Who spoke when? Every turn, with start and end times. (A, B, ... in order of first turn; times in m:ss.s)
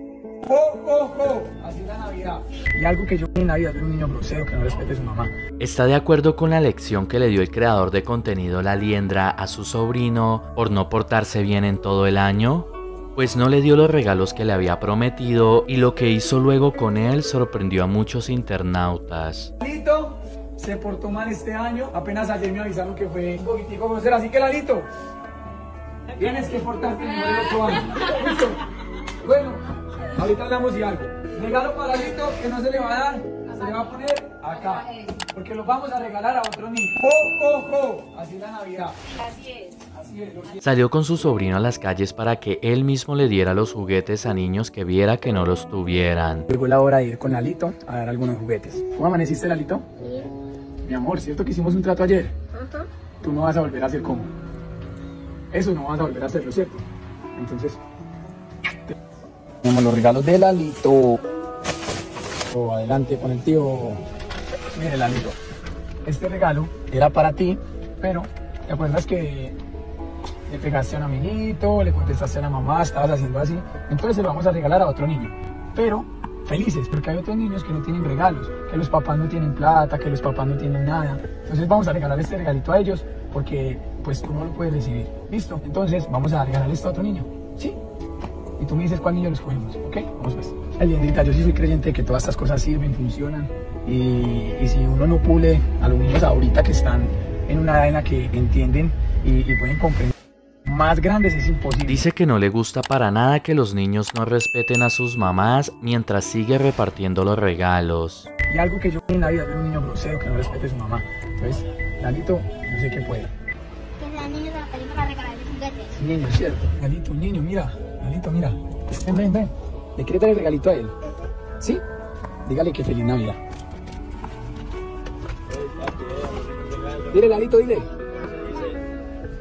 0:00.4-0:05.4 A
0:05.6-0:19.5 B
0:19.6-0:24.9 A
0:26.2-0:28.6 A
0:29.2-0:40.6 A
0:40.6-0:46.5 B
0:46.5-0:49.9 A
0:50.0-0:50.3 C
0:50.8-0:52.3 A
0:52.5-0:52.9 C
0:53.2-0:54.3 A
0:55.5-0:56.8 A
0:57.4-0:57.8 A
0:59.6-1:01.2 A
1:02.5-1:04.0 A
1:04.7-1:05.4 A
1:06.0-1:09.6 A
1:10.5-1:27.8 A
1:28.6-1:42.0 A
1:41.9-1:48.3 B
1:48.5-1:53.3 A
1:54.0-1:56.0 C
1:56.0-2:01.0 A
2:01.0-2:01.3 C
2:02.5-2:03.4 A
2:07.0-2:07.9 A
2:07.9-2:08.8 C